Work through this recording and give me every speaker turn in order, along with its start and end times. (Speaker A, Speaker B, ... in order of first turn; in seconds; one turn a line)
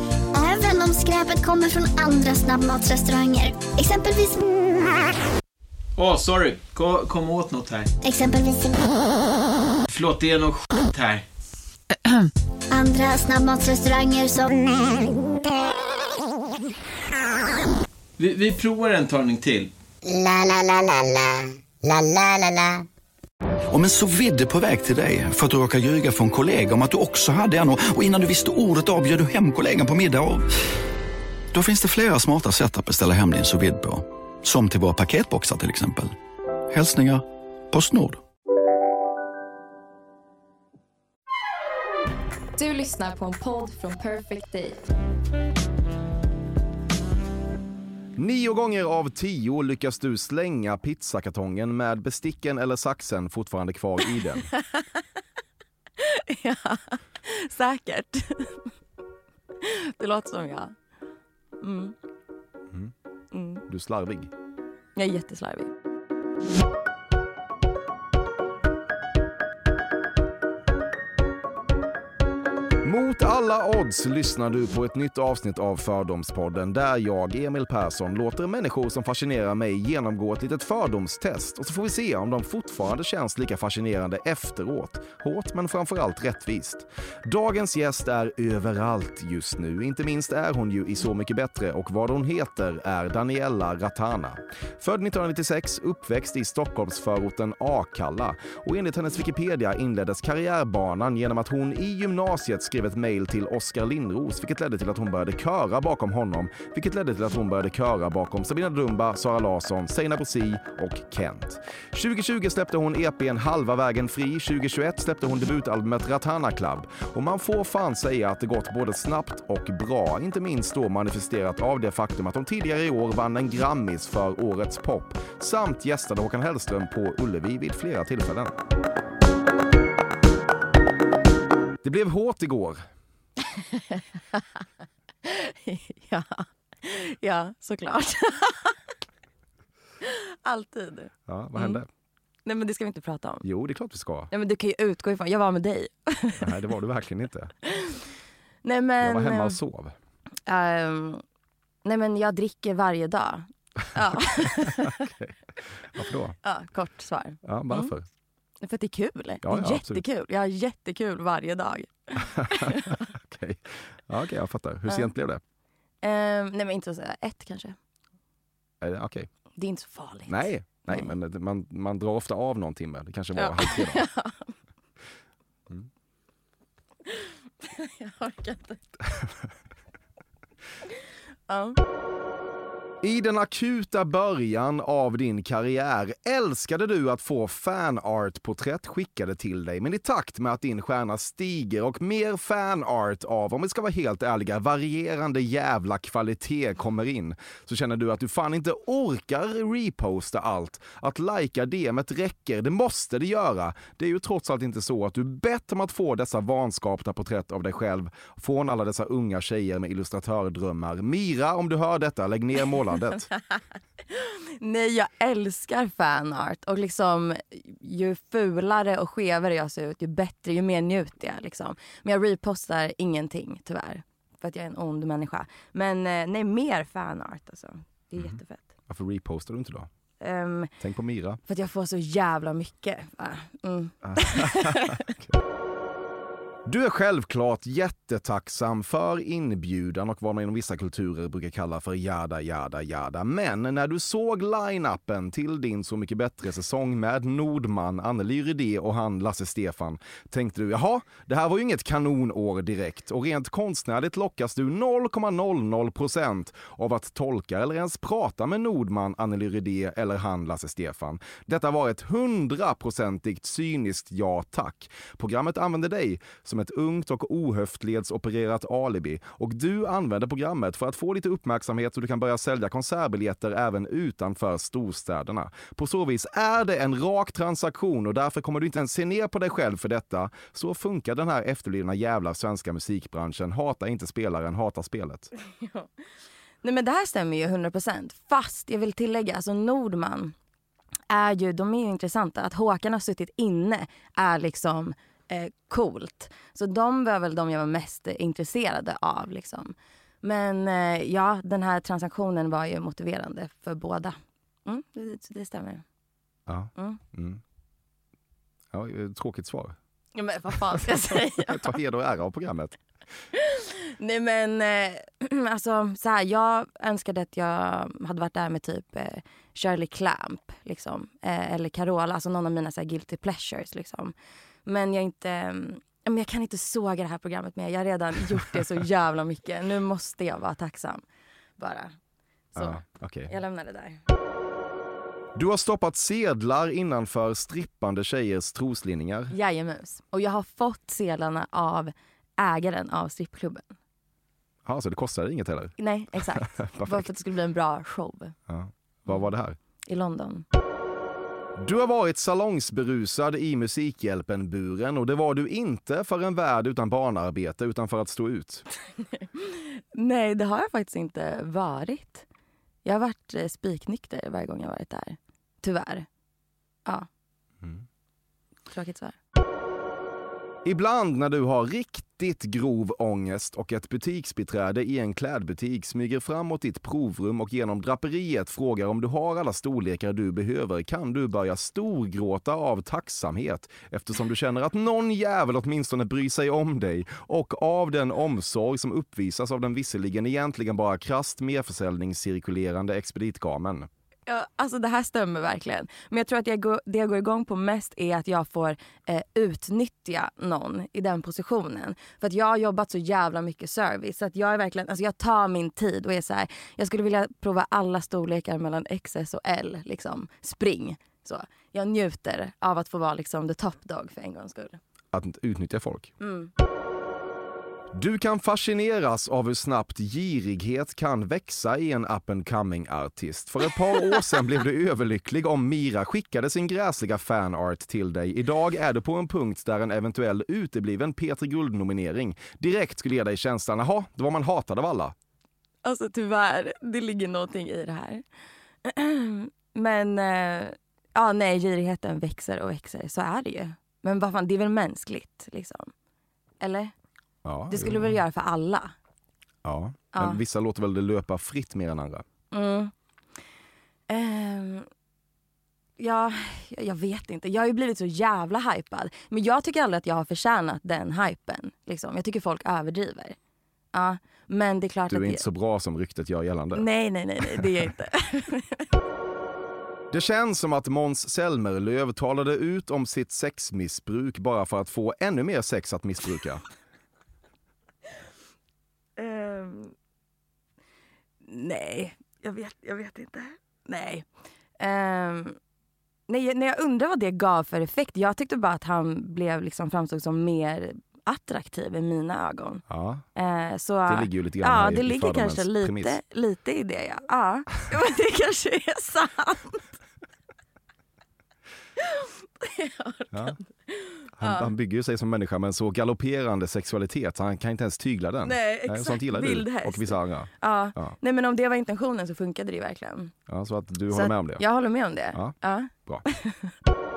Speaker A: 0.3-5.0
Speaker B: 6.0-7.9
Speaker A: 8.0-9.1
Speaker B: 9.9-11.2
Speaker A: 12.7-15.3
Speaker B: 18.2-19.7
Speaker C: 20.1-22.8
Speaker D: 23.7-30.5
Speaker D: 31.5-36.2
Speaker D: 36.7-38.2
Speaker E: 42.6-44.8
Speaker F: 48.2-54.5
Speaker G: 54.5-55.0
Speaker G: 56.0-58.7
Speaker G: 59.6-60.8
Speaker G: 61.6-62.0
Speaker G: 63.3-63.6
Speaker F: 63.7-64.3
Speaker G: 65.0-65.7
Speaker F: 72.8-128.6
Speaker F: 131.8-132.8
Speaker G: 133.5-134.6
Speaker G: 135.2-138.8
Speaker G: 140.0-141.8
Speaker F: 141.3-141.9
Speaker G: 142.4-143.4
Speaker F: 143.4-144.3
Speaker G: 144.3-146.5
Speaker F: 146.4-147.5
Speaker G: 147.6-148.0
Speaker G: 148.6-149.6
Speaker F: 149.0-149.9
Speaker G: 150.5-151.2
Speaker G: 151.8-155.0
Speaker F: 154.7-156.4
Speaker G: 156.4-157.9
Speaker F: 157.4-158.1
Speaker G: 158.6-163.0
Speaker F: 159.4-160.0
Speaker F: 162.2-165.4
Speaker G: 166.0-167.8
Speaker F: 168.8-169.3
Speaker G: 169.6-171.1
Speaker F: 170.3-174.0
Speaker G: 173.3-174.5
Speaker G: 177.1-178.8
Speaker G: 181.5-181.8
Speaker F: 183.0-213.3
Speaker G: 213.4-228.7
Speaker F: 228.9-229.9
Speaker G: 230.2-230.7
Speaker F: 230.8-231.4
Speaker G: 231.5-235.0
Speaker F: 234.0-235.4
Speaker F: 236.7-285.3
Speaker G: 285.5-285.9
Speaker G: 286.6-290.4
Speaker G: 291.1-305.8
Speaker F: 306.5-307.4
Speaker F: 308.7-309.8
Speaker G: 310.1-311.8
Speaker F: 310.7-312.8
Speaker G: 313.3-324.1
Speaker G: 324.7-331.0
Speaker G: 331.6-331.9
Speaker G: 332.6-334.0
Speaker F: 332.6-333.3
Speaker F: 335.4-339.3
Speaker G: 339.3-343.8
Speaker F: 344.6-345.8
Speaker G: 345.8-348.4
Speaker F: 346.3-347.1
Speaker F: 348.5-349.6
Speaker G: 349.9-350.4
Speaker F: 351.6-358.7
Speaker G: 359.1-362.2
Speaker G: 362.9-366.1
Speaker G: 368.7-369.2
Speaker F: 370.6-393.9
Speaker G: 394.3-414.8
Speaker F: 415.1-416.1
Speaker G: 416.2-416.5
Speaker F: 417.9-435.1
Speaker G: 435.9-438.2
Speaker G: 438.9-445.9
Speaker G: 446.6-446.9
Speaker F: 447.4-448.2
Speaker G: 447.7-448.9
Speaker F: 449.6-452.2
Speaker G: 450.1-450.4
Speaker G: 452.5-452.9
Speaker G: 454.1-454.9
Speaker G: 456.0-463.4
Speaker G: 463.9-465.4
Speaker F: 465.1-466.9
Speaker G: 466.8-468.9
Speaker F: 467.4-467.8
Speaker F: 470.1-476.7
Speaker G: 479.2-479.9
Speaker G: 481.4-484.3
Speaker G: 484.8-485.6
Speaker G: 486.3-492.8
Speaker F: 492.9-493.2
Speaker G: 493.4-499.9
Speaker F: 494.1-496.2
Speaker G: 502.0-504.7
Speaker F: 504.4-511.2
Speaker G: 508.4-513.3
Speaker F: 513.5-514.6
Speaker G: 514.1-516.7
Speaker F: 515.3-516.2